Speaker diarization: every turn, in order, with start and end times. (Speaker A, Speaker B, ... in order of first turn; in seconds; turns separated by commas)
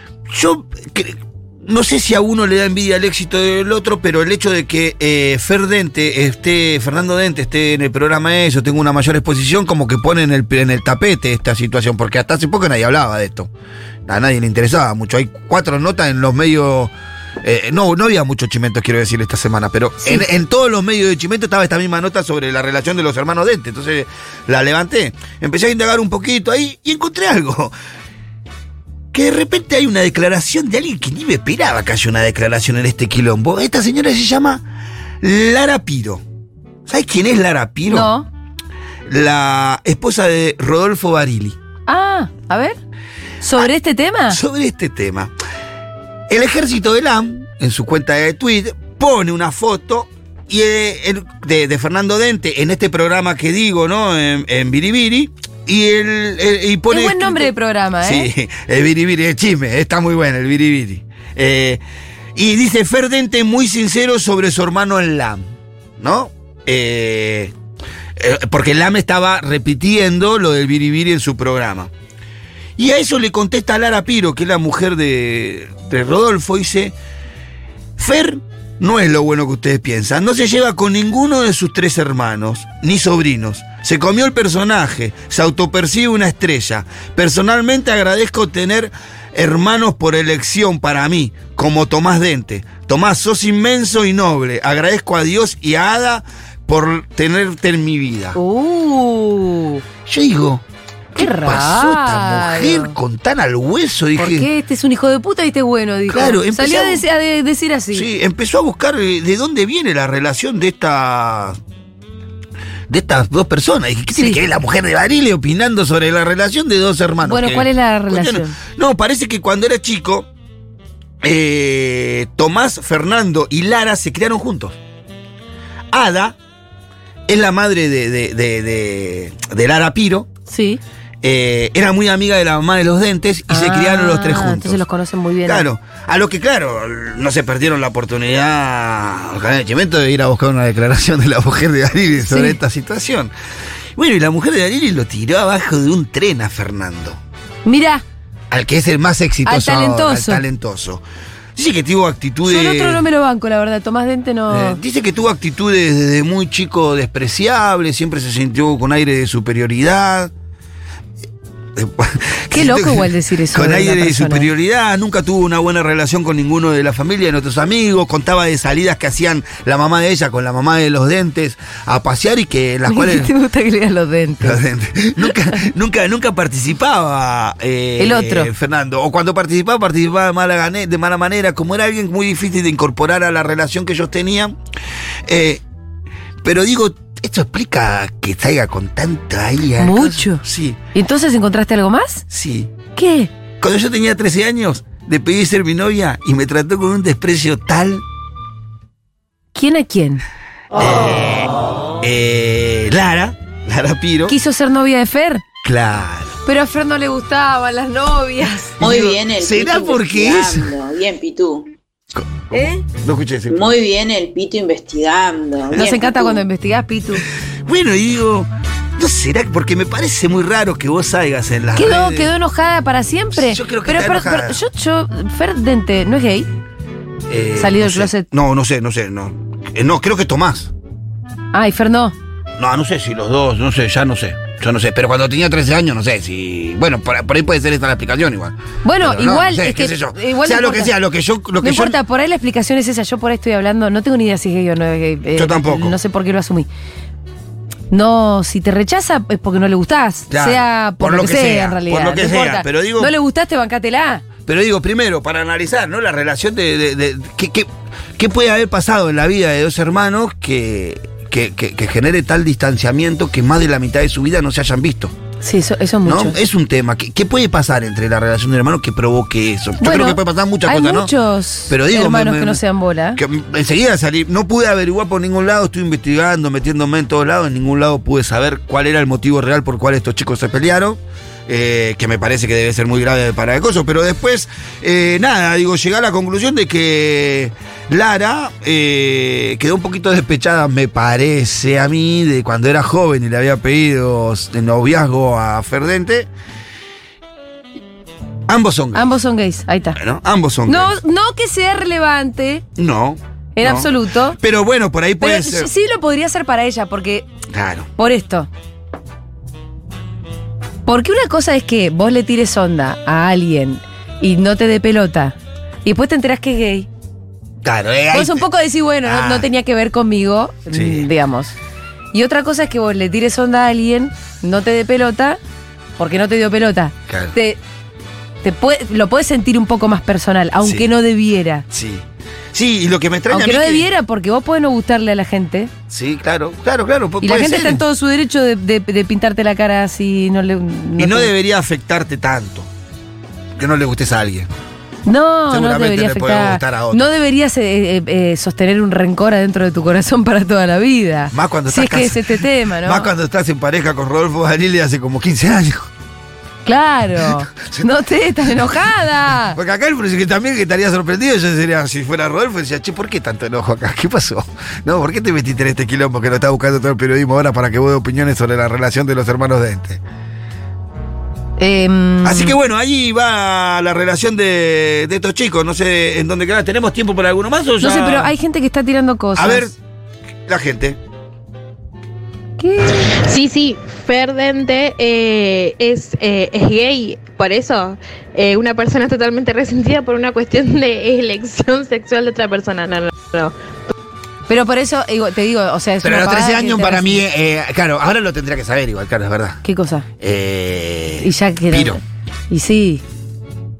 Speaker A: 0.3-13.5, Speaker A: 14.1-27.7, Speaker B: 20.0-20.2, Speaker A: 29.1-34.6, Speaker A: 35.2-36.2, Speaker A: 36.9-38.1, Speaker B: 37.9-38.3, Speaker A: 39.0-41.6, Speaker B: 41.9-42.8, Speaker B: 43.4-44.4, Speaker A: 44.3-45.3, Speaker A: 46.3-61.8, Speaker B: 56.9-58.3, Speaker A: 62.3-65.4, Speaker A: 66.0-67.5, Speaker A: 68.2-71.9, Speaker A: 72.8-76.9, Speaker A: 78.0-98.4, Speaker B: 98.3-99.8, Speaker A: 100.0-100.6, Speaker A: 101.1-104.5, Speaker B: 101.2-102.9, Speaker B: 104.2-108.1, Speaker A: 106.1-107.0, Speaker A: 107.9-111.6, Speaker A: 112.9-120.3, Speaker B: 114.1-114.4, Speaker B: 117.2-118.6, Speaker A: 121.2-124.8, Speaker A: 125.9-126.3, Speaker A: 127.3-130.3, Speaker B: 130.5-130.8, Speaker A: 131.2-134.8, Speaker B: 133.5-135.7, Speaker A: 135.4-143.3, Speaker B: 142.2-142.6, Speaker A: 143.9-147.2, Speaker B: 147.6-148.0, Speaker A: 148.5-151.0, Speaker B: 149.4-150.4, Speaker A: 151.5-153.0, Speaker B: 152.4-154.8, Speaker A: 154.5-160.3, Speaker A: 161.8-173.3, Speaker B: 162.5-164.5, Speaker B: 172.9-174.6, Speaker A: 174.4-184.6, Speaker B: 175.2-175.6, Speaker B: 178.0-178.5, Speaker A: 185.3-185.6, Speaker A: 186.4-190.8, Speaker B: 189.8-190.4, Speaker B: 190.9-192.2, Speaker A: 192.3-192.7, Speaker B: 192.9-193.3, Speaker A: 193.6-198.0, Speaker B: 199.5-200.2, Speaker A: 200.8-201.5, Speaker A: 202.0-204.3, Speaker B: 204.3-205.4, Speaker A: 205.6-206.4, Speaker B: 206.4-208.8, Speaker A: 208.8-210.7, Speaker C: 208.8-211.7, Speaker B: 212.5-212.8, Speaker A: 213.0-213.6, Speaker C: 213.5-216.4, Speaker B: 215.7-217.2, Speaker A: 217.7-222.3, Speaker B: 221.7-226.5, Speaker A: 223.3-224.6, Speaker A: 227.3-230.7, Speaker B: 227.6-228.2, Speaker B: 231.5-232.1, Speaker A: 232.6-242.0, Speaker B: 238.8-240.9, Speaker B: 241.6-246.7, Speaker A: 245.3-245.9, Speaker B: 247.9-254.2, Speaker A: 250.3-253.1, Speaker A: 254.4-265.1, Speaker B: 265.4-266.4, Speaker A: 266.0-271.1, Speaker B: 269.8-273.2, Speaker A: 271.7-272.6, Speaker A: 273.1-296.3, Speaker A: 298.5-299.1, Speaker B: 298.9-300.0, Speaker A: 299.9-300.9, Speaker B: 300.7-302.6, Speaker A: 302.8-305.7, Speaker B: 303.6-304.4, Speaker B: 305.2-307.3, Speaker A: 307.5-307.9, Speaker B: 308.0-308.5, Speaker B: 310.9-316.9, Speaker A: 317.6-318.5, Speaker B: 318.1-321.5, Speaker A: 319.0-319.5, Speaker A: 320.7-321.1, Speaker B: 322.1-325.4, Speaker B: 326.0-327.6, Speaker A: 327.1-327.3, Speaker B: 328.4-331.6, Speaker A: 330.6-330.9, Speaker A: 331.7-333.9, Speaker B: 333.3-335.7, Speaker A: 335.9-337.8, Speaker B: 337.2-341.3, Speaker A: 341.0-342.7, Speaker A: 343.6-344.5, Speaker B: 345.1-353.1, Speaker A: 345.5-347.1, Speaker A: 351.3-355.9, Speaker B: 356.6-359.6, Speaker A: 357.2-357.9, Speaker A: 358.4-370.0, Speaker B: 371.6-372.5, Speaker A: 372.2-378.3, Speaker B: 377.8-379.7, Speaker A: 379.4-379.7, Speaker A: 380.5-381.0, Speaker B: 382.6-382.9, Speaker D: 383.3-393.5, Speaker B: 394.5-397.2, Speaker A: 396.0-399.6, Speaker B: 399.6-400.1, Speaker A: 400.2-402.0, Speaker B: 401.2-403.0